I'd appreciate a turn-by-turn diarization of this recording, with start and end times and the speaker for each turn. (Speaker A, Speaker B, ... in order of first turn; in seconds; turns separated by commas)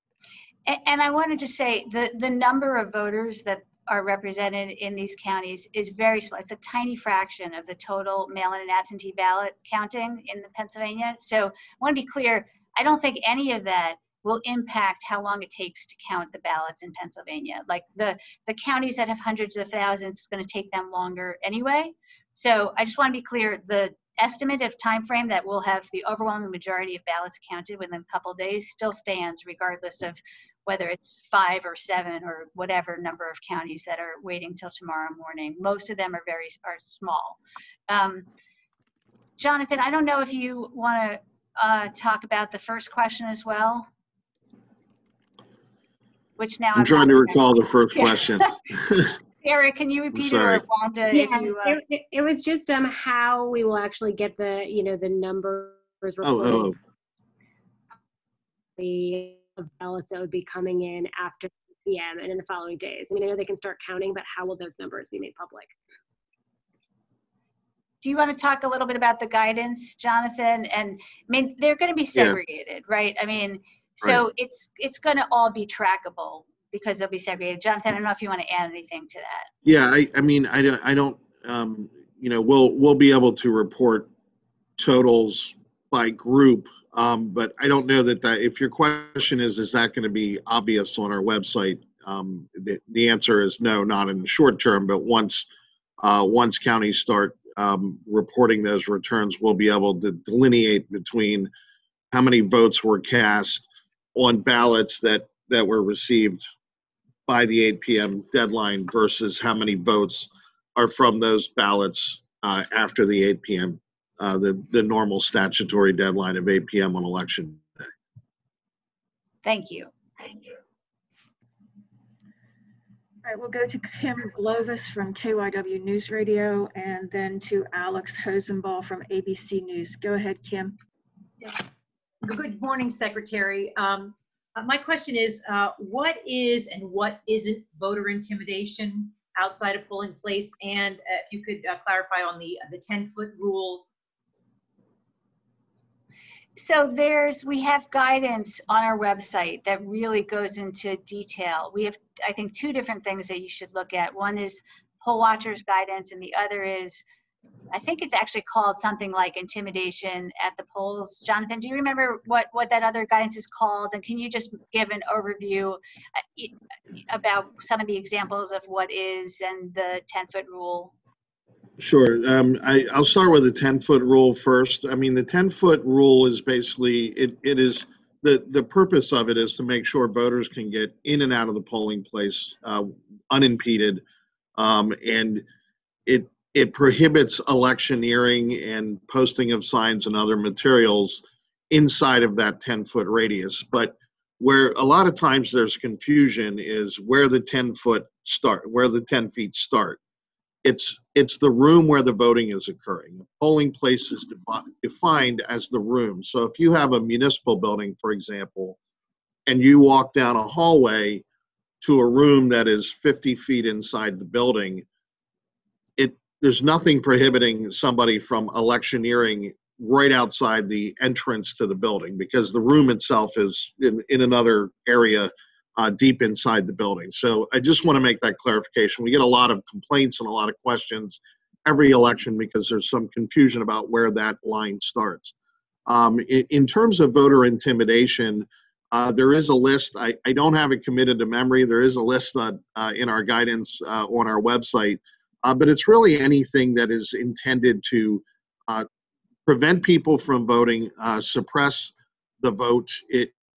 Speaker A: 0.7-38.2, Speaker A: 39.4-43.9, Speaker A: 46.4-51.8, Speaker B: 46.7-49.1, Speaker B: 50.1-50.6, Speaker C: 51.1-56.8, Speaker B: 56.2-56.7, Speaker C: 58.8-65.7, Speaker A: 68.0-79.5, Speaker B: 79.6-84.1, Speaker B: 84.8-95.5, Speaker B: 96.0-101.5, Speaker B: 102.1-106.5, Speaker B: 107.3-117.9, Speaker A: 119.4-119.9, Speaker D: 123.2-130.8, Speaker E: 132.2-143.9, Speaker A: 146.6-157.0, Speaker A: 157.7-166.5, Speaker A: 167.1-170.9, Speaker B: 171.8-184.0, Speaker B: 184.6-185.4, Speaker B: 186.1-200.0, Speaker B: 200.6-208.8, Speaker B: 209.5-211.2, Speaker B: 211.8-214.8, Speaker B: 216.0-235.3, Speaker B: 235.8-248.9, Speaker B: 249.5-253.3